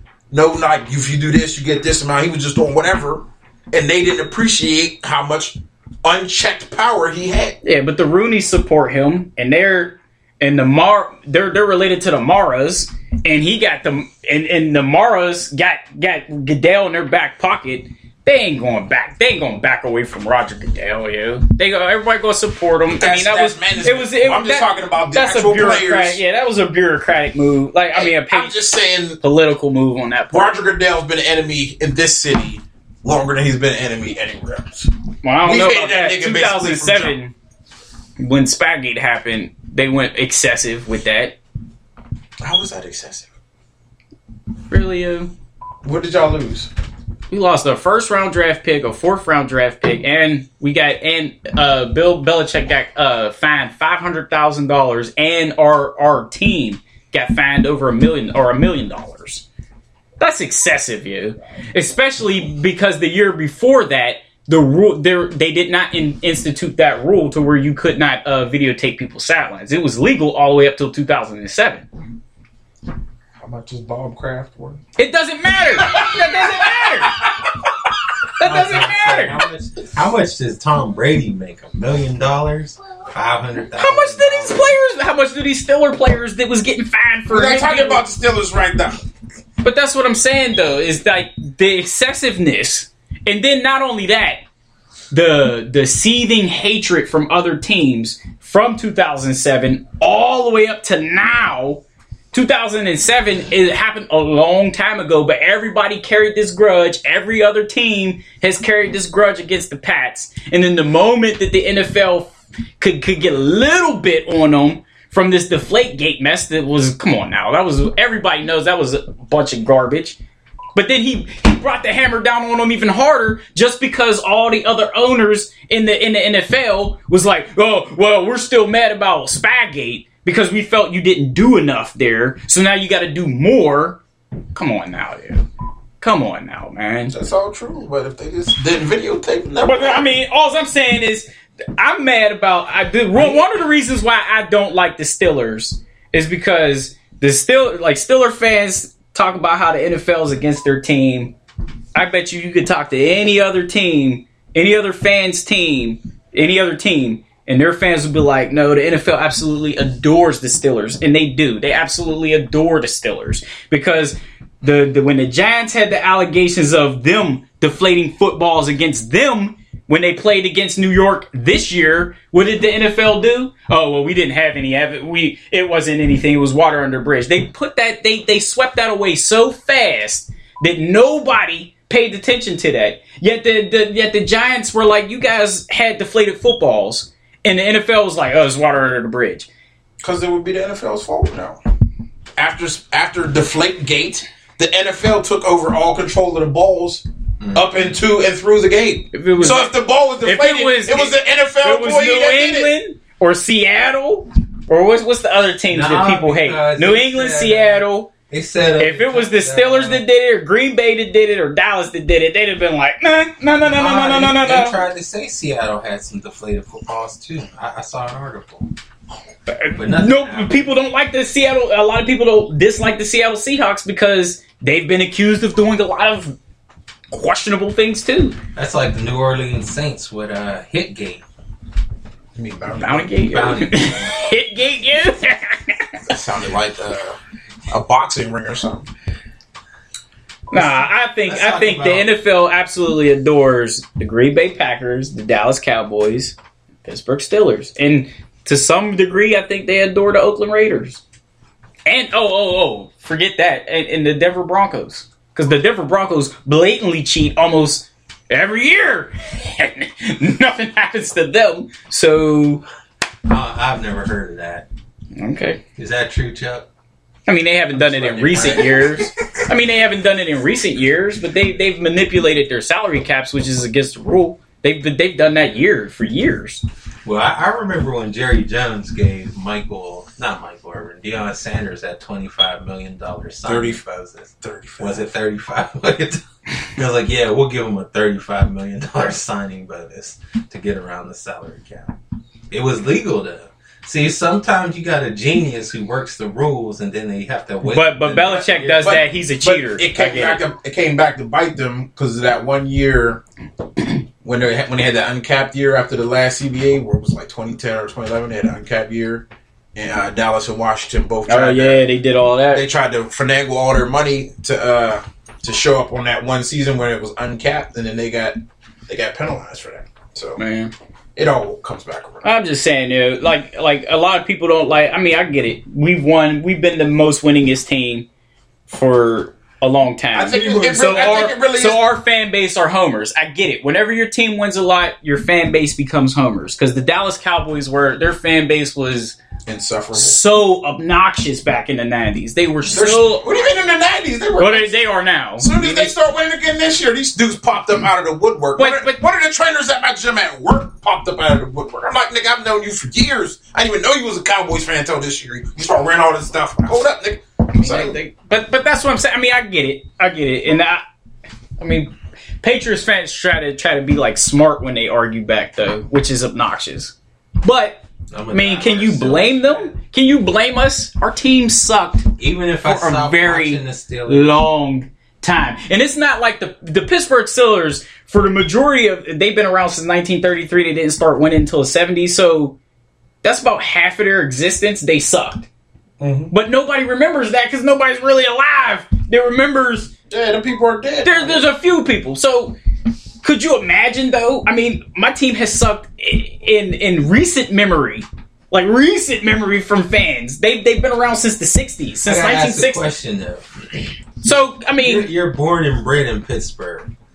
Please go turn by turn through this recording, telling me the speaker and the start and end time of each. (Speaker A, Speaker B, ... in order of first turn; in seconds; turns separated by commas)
Speaker A: 0.3-7.6, Speaker B: 7.6-28.5, Speaker A: 22.9-26.2, Speaker A: 27.9-29.2, Speaker B: 29.2-30.6, Speaker A: 30.3-34.9, Speaker B: 35.2-37.3, Speaker A: 35.4-37.2, Speaker B: 38.2-41.4, Speaker A: 42.4-43.3, Speaker B: 44.7-45.3, Speaker A: 45.8-46.7, Speaker B: 47.3-59.4, Speaker B: 60.2-71.8, Speaker A: 73.4-74.8, Speaker B: 75.0-77.2, Speaker A: 75.8-77.5, Speaker B: 78.4-79.4, Speaker C: 78.4-84.7, Speaker B: 83.8-88.0, Speaker A: 87.3-89.0, Speaker B: 89.6-94.4, Speaker B: 95.1-120.2, Speaker B: 120.7-134.0, Speaker B: 134.5-135.4, Speaker B: 136.0-137.1, Speaker A: 137.1-140.1, Speaker B: 139.6-151.3, Speaker A: 143.1-143.4, Speaker B: 151.9-189.5, Speaker A: 190.0-191.6, Speaker A: 192.4-202.7, Speaker C: 197.4-198.0, Speaker B: 199.1-208.1, Speaker C: 205.7-210.0, Speaker B: 208.8-214.8, Speaker C: 213.6-218.7, Speaker B: 219.5-226.3, Speaker C: 219.8-220.7, Speaker B: 227.1-228.4, Speaker C: 228.5-231.2, Speaker A: 232.3-233.1, Speaker B: 232.8-236.0, Speaker C: 233.3-234.1, Speaker A: 236.1-237.2, Speaker A: 237.7-238.9, Speaker B: 240.5-251.0, Speaker C: 240.5-242.1, Speaker B: 251.8-262.6, Speaker C: 263.3-264.6, Speaker B: 265.1-265.6, Speaker C: 265.8-266.7, Speaker B: 267.3-276.6, Speaker A: 267.7-269.0, Speaker C: 268.3-268.7, Speaker C: 277.0-291.9, Speaker A: 283.4-283.8, Speaker A: 284.4-285.0, Speaker C: 292.5-299.0, Speaker B: 297.6-300.4, Speaker A: 298.8-303.2, Speaker A: 304.2-311.9, Speaker B: 311.3-312.6, Speaker A: 312.5-320.4, Speaker B: 320.4-320.7, Speaker A: 321.1-322.3, Speaker B: 322.2-328.1, Speaker B: 328.7-339.2, Speaker A: 330.1-331.8, Speaker A: 339.4-340.2, Speaker B: 339.9-343.3, Speaker A: 342.7-344.7, Speaker B: 344.4-345.9, Speaker A: 345.4-358.0, Speaker B: 348.6-349.0, Speaker B: 357.5-360.8, Speaker B: 361.6-372.1, Speaker C: 368.1-369.7, Speaker C: 372.2-374.4, Speaker B: 372.6-382.6, Speaker B: 383.2-385.5, Speaker A: 386.0-386.3, Speaker B: 386.3-389.9, Speaker A: 390.1-391.5, Speaker B: 391.0-392.6, Speaker B: 393.2-402.8, Speaker C: 402.1-403.8, Speaker B: 404.2-405.1, Speaker C: 404.8-406.9